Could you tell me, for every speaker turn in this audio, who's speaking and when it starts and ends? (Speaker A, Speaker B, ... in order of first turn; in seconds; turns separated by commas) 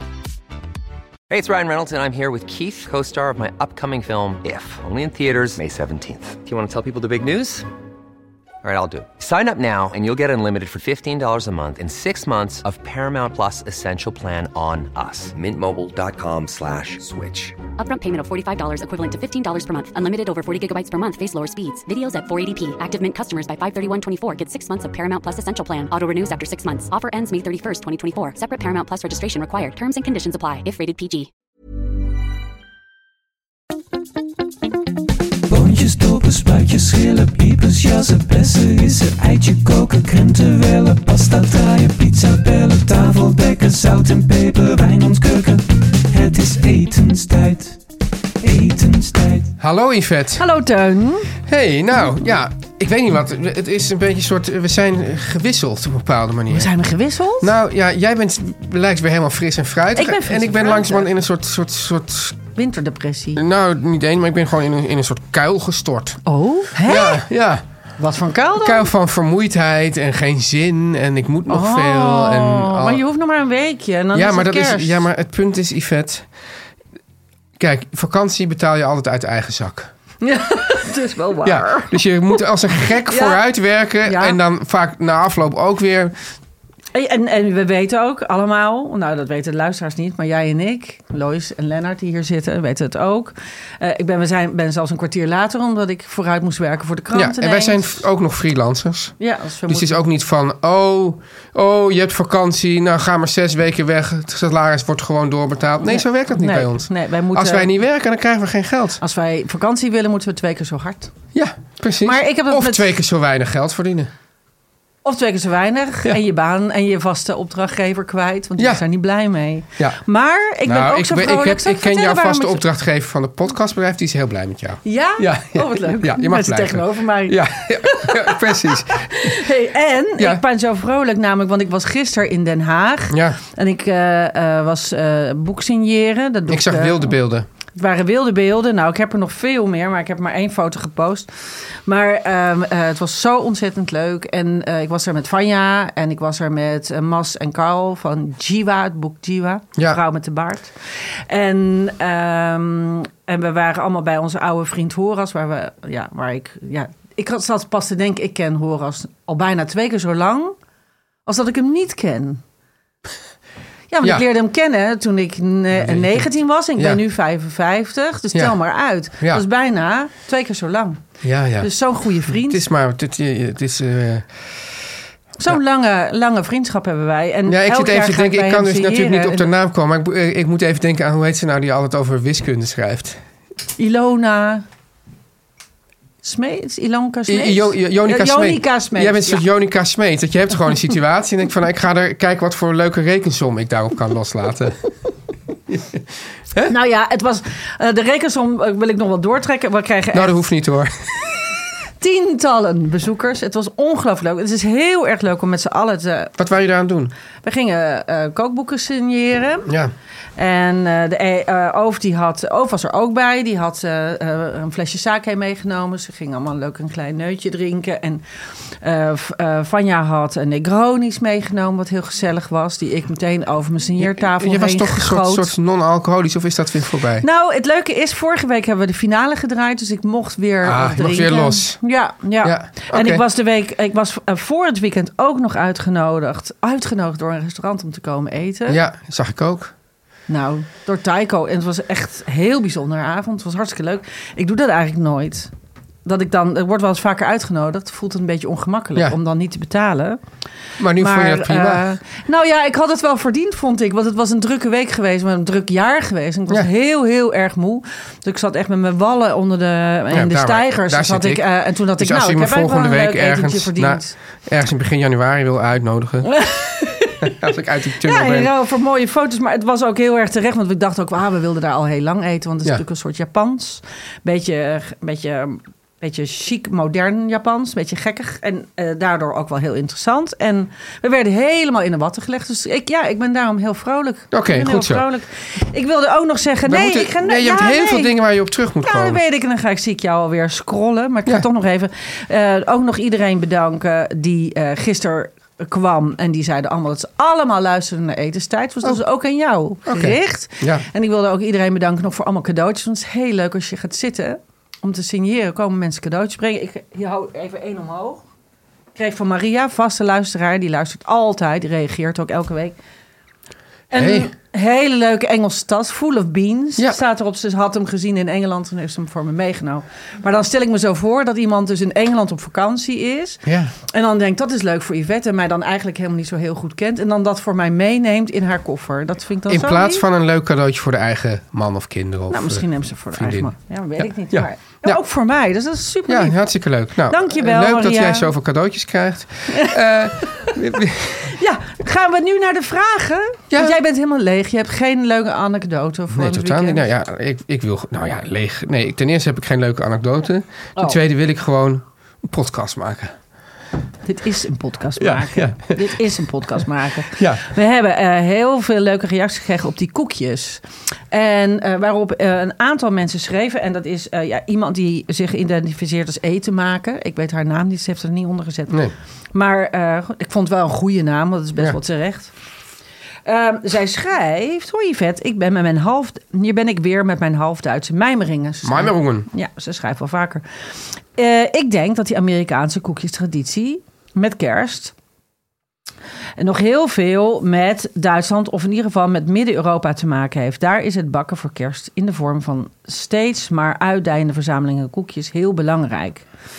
Speaker A: 1.3-7.7, Speaker A: 8.6-17.6, Speaker B: 17.8-31.3, Speaker C: 35.5-47.8, Speaker C: 48.4-49.5, Speaker D: 49.6-50.5, Speaker E: 50.4-51.4, Speaker D: 51.4-56.7, Speaker E: 56.5-57.5, Speaker D: 57.4-62.4, Speaker E: 60.0-61.1, Speaker E: 62.5-63.4, Speaker D: 63.4-66.2, Speaker E: 66.3-67.2, Speaker D: 66.7-67.9, Speaker E: 68.0-68.9, Speaker D: 68.6-73.0, Speaker E: 71.5-75.1, Speaker D: 74.1-76.3, Speaker D: 77.6-79.9, Speaker E: 80.2-82.4, Speaker D: 81.4-86.2, Speaker E: 83.0-83.4, Speaker E: 84.0-84.4, Speaker E: 86.9-98.0, Speaker D: 97.1-109.0, Speaker E: 99.2-100.0, Speaker E: 105.8-107.7, Speaker E: 109.0-111.1, Speaker D: 111.3-114.1, Speaker E: 112.0-112.9, Speaker E: 115.0-122.6, Speaker D: 118.6-118.8, Speaker D: 120.6-129.4, Speaker E: 124.8-137.2, Speaker D: 130.2-130.4, Speaker D: 133.1-133.4, Speaker D: 136.5-137.5, Speaker E: 137.7-160.6, Speaker E: 161.3-162.4, Speaker E: 163.9-172.6, Speaker D: 165.8-167.0, Speaker D: 171.2-174.7, Speaker E: 175.4-179.5, Speaker D: 177.5-183.2, Speaker E: 183.8-184.7, Speaker E: 186.2-189.4, Speaker D: 187.3-194.8, Speaker D: 195.7-196.8, Speaker E: 196.7-200.4, Speaker D: 200.1-201.0, Speaker E: 202.0-206.3, Speaker D: 206.4-207.1, Speaker E: 207.4-209.7, Speaker D: 209.7-209.9, Speaker E: 210.4-225.5, Speaker D: 224.0-227.2, Speaker E: 227.2-238.8, Speaker D: 230.6-231.8, Speaker D: 232.4-233.2, Speaker D: 238.7-239.7, Speaker E: 240.3-245.5, Speaker E: 246.1-250.2, Speaker D: 250.8-251.9, Speaker E: 250.9-264.1, Speaker D: 260.1-266.4, Speaker E: 266.3-267.3, Speaker D: 267.2-268.5, Speaker E: 268.0-288.2, Speaker D: 284.3-285.1, Speaker D: 286.7-289.2, Speaker E: 288.8-308.2, Speaker D: 299.9-300.9, Speaker E: 308.9-312.8, Speaker E: 313.9-330.0, Speaker D: 313.9-314.3, Speaker D: 323.5-323.7, Speaker D: 329.5-335.0, Speaker E: 332.3-336.4, Speaker D: 336.1-341.4, Speaker E: 337.1-338.3, Speaker E: 339.5-339.8, Speaker E: 341.3-346.9, Speaker D: 343.5-343.8, Speaker D: 346.1-353.1, Speaker E: 354.1-368.8, Speaker D: 355.0-356.1, Speaker D: 357.2-357.5, Speaker D: 368.7-368.9, Speaker E: 369.3-372.3, Speaker E: 373.2-380.4, Speaker D: 378.6-379.3, Speaker E: 381.0-384.9, Speaker E: 386.4-396.3